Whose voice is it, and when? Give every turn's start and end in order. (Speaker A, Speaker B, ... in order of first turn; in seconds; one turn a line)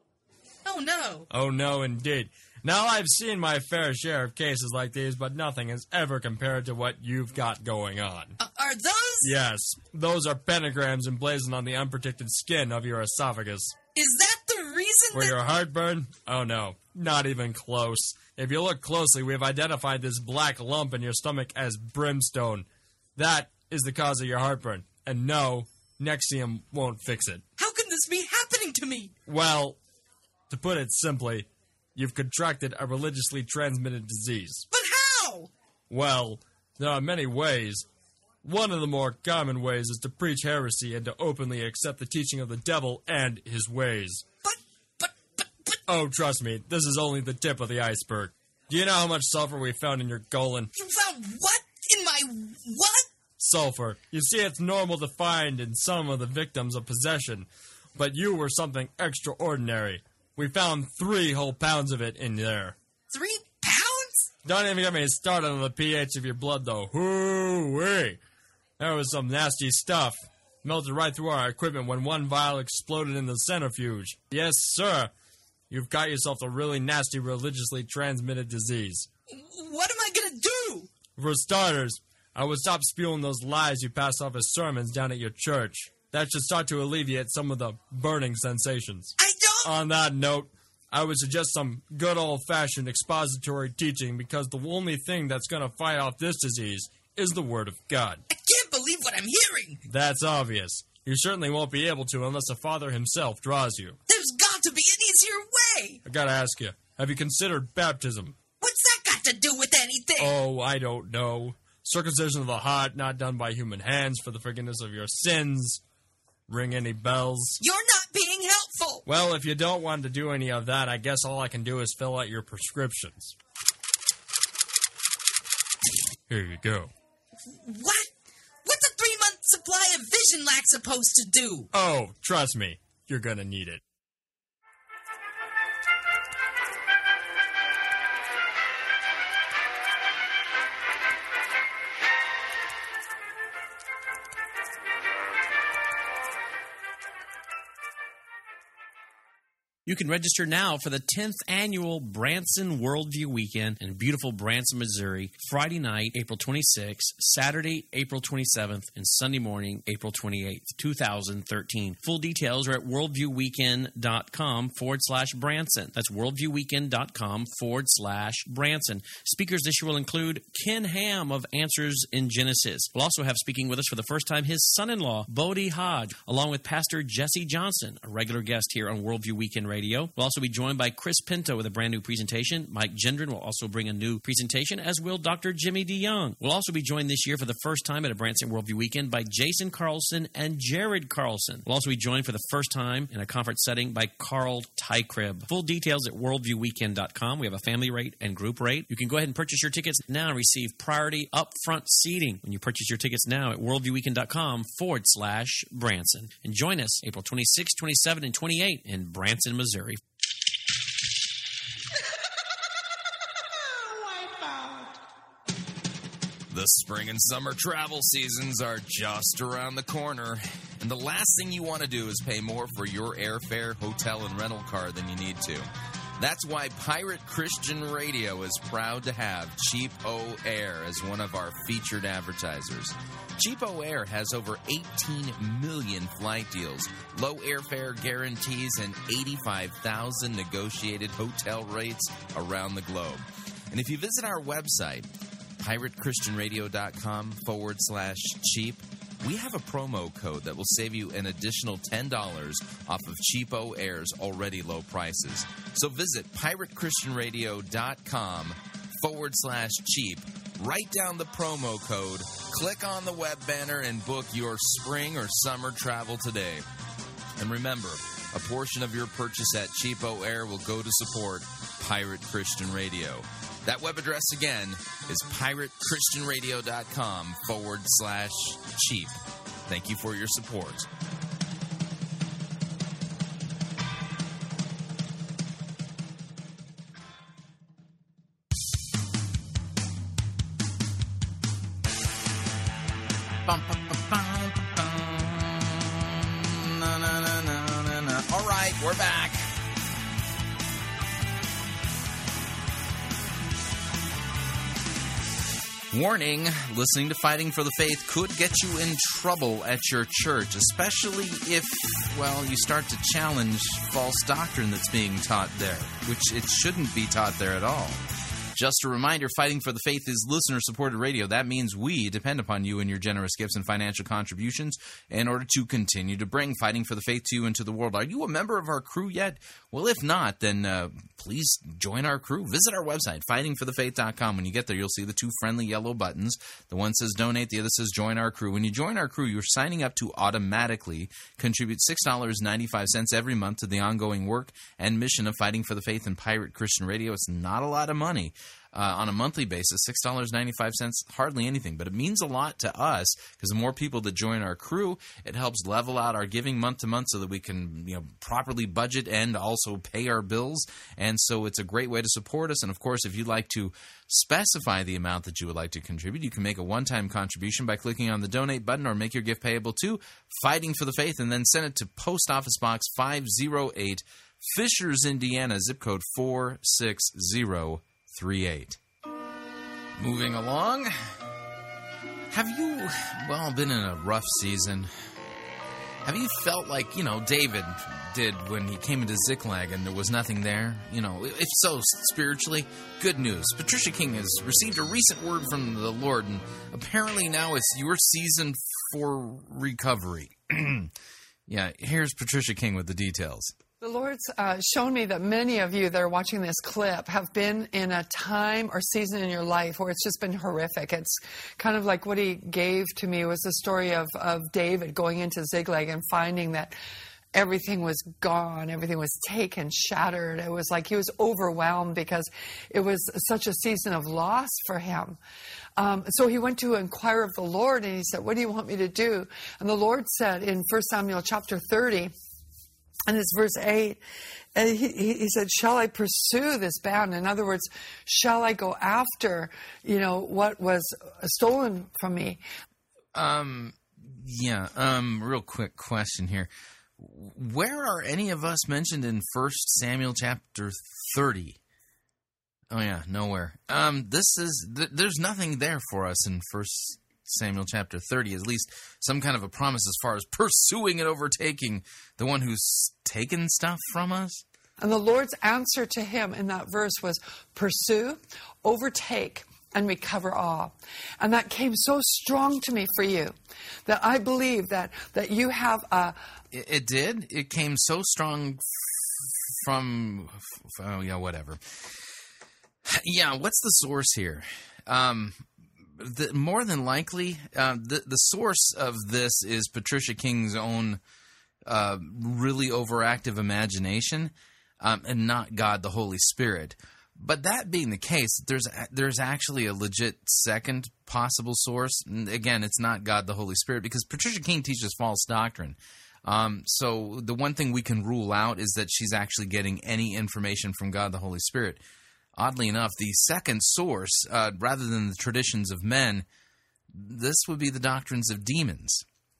Speaker A: 0.6-1.3
Speaker B: 1.3-8.3
Speaker A: 8.4-9.3
Speaker B: 9.2-13.8
Speaker A: 13.9-15.4
Speaker B: 15.1-27.4
Speaker A: 27.6-29.1
Speaker B: 29.2-29.8
Speaker B: 30.5-34.7
Speaker A: 34.7-35.5
Speaker B: 35.9-37.9
Speaker B: 38.4-44.2
Speaker A: 44.4-45.8
Speaker B: 45.9-50.7
Speaker A: 50.7-53.1
Speaker B: 53.4-62.8
Speaker A: 63.1-64.3
Speaker B: 64.4-68.2
Speaker B: 68.8-75.1
Speaker B: 75.7-79.1
Speaker A: 79.3-80.9
Speaker B: 81.2-98.2
Speaker A: 89.2-89.7
Speaker A: 98.3-99.8
Speaker B: 99.9-104.0
Speaker A: 104.1-106.0
Speaker B: 106.0-108.4
Speaker A: 108.6-110.3
Speaker B: 110.2-115.8
Speaker B: 116.5-117.6
Speaker A: 117.6-119.0
Speaker B: 119.0-123.3
Speaker B: 126.3-126.9
Speaker A: 127.5-128.1
Speaker A: 128.6-131.7
Speaker B: 131.7-133.8
Speaker C: 149.8-210.0
Speaker D: 216.5-225.7
Speaker D: 226.2-266.6
Speaker D: 267.4-279.1
Speaker D: 279.7-280.9
Speaker D: 293.4-299.5
Speaker D: 305.9-378.8
Speaker D: 380.0-381.2
Speaker D: 382.3-384.9
Speaker D: 386.0-400.9
Speaker D: 401.5-403.5
Speaker E: 403.8-416.7
Speaker E: 417.3-425.2
Speaker E: 425.8-432.1
Speaker E: 433.1-434.0
Speaker E: 434.5-442.4
Speaker D: 443.1-451.6
Speaker D: 452.7-464.4
Speaker E: 464.8-476.2
Speaker D: 476.5-482.1
Speaker D: 482.8-491.0
Speaker D: 491.6-511.8
Speaker D: 512.4-516.2
Speaker D: 516.9-519.0